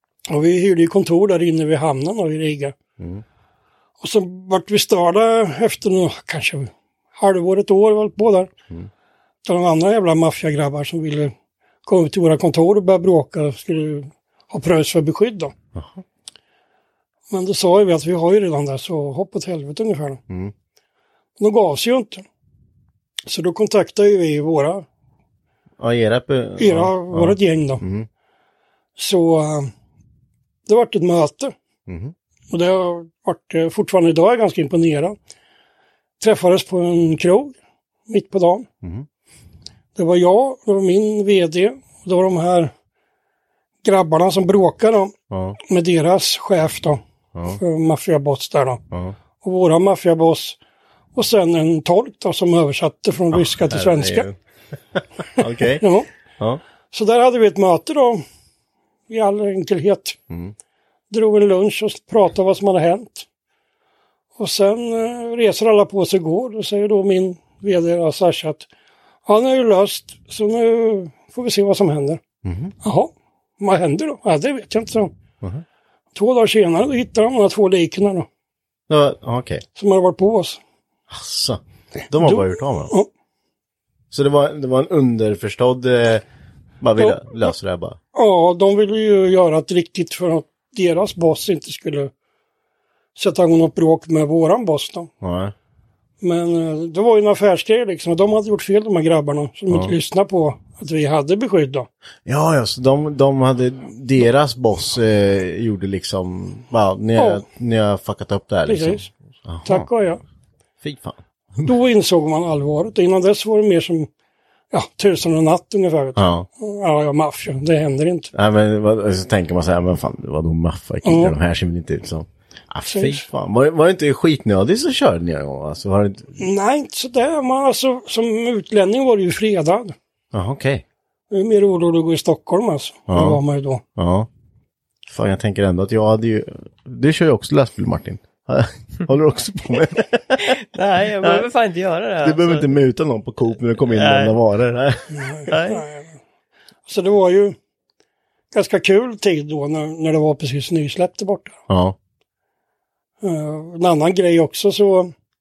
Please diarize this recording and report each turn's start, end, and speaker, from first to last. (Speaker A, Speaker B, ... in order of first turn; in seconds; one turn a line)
Speaker A: 0.3-2.7
Speaker A: 4.0-8.5
Speaker A: 9.4-11.3
Speaker A: 11.8-15.5
Speaker B: 15.7-16.0
Speaker A: 17.3-20.2
Speaker A: 21.4-22.2
Speaker A: 23.3-24.8
Speaker B: 25.8-28.1
Speaker A: 26.6-27.8
Speaker A: 29.0-29.7
Speaker A: 30.6-31.5
Speaker B: 31.9-32.1
Speaker A: 32.5-35.1
Speaker A: 36.2-37.5
Speaker A: 38.1-38.7
Speaker B: 38.8-39.1
Speaker A: 40.0-42.7
Speaker A: 43.8-45.1
Speaker B: 45.3-45.6
Speaker A: 45.6-48.8
Speaker B: 47.3-47.6
Speaker B: 48.9-49.1
Speaker A: 49.4-50.6
Speaker A: 51.1-54.3
Speaker B: 53.3-54.4
Speaker B: 54.9-56.6
Speaker A: 55.8-56.1
Speaker A: 56.9-58.2
Speaker A: 59.1-60.2
Speaker A: 61.1-63.2
Speaker A: 64.4-68.7
Speaker A: 69.2-72.2
Speaker B: 72.4-72.7
Speaker A: 72.8-75.1
Speaker A: 76.1-78.3
Speaker B: 78.9-79.6
Speaker A: 79.8-80.6
Speaker B: 81.1-82.9
Speaker A: 82.2-83.1
Speaker B: 84.1-86.2
Speaker B: 86.8-88.0
Speaker A: 88.1-92.1
Speaker A: 93.2-95.1
Speaker B: 95.2-95.5
Speaker A: 96.2-101.9
Speaker B: 102.2-109.9
Speaker A: 107.2-107.4
Speaker A: 108.7-109.1
Speaker A: 109.6-110.2
Speaker B: 110.8-111.7
Speaker A: 111.6-114.1
Speaker A: 114.7-118.3
Speaker B: 116.2-116.5
Speaker B: 118.3-126.3
Speaker A: 121.0-121.3
Speaker A: 122.8-123.2
Speaker A: 126.4-129.9
Speaker B: 130.3-130.8
Speaker A: 131.3-133.8
Speaker B: 133.1-133.4
Speaker B: 133.9-134.3
Speaker B: 135.1-140.6
Speaker C: 140.7-142.7
Speaker B: 141.2-141.5
Speaker B: 142.2-145.6
Speaker C: 143.9-144.3
Speaker A: 145.1-146.1
Speaker C: 145.5-145.8
Speaker A: 146.9-147.6
Speaker A: 148.5-151.6
Speaker B: 151.7-151.9
Speaker A: 153.2-155.1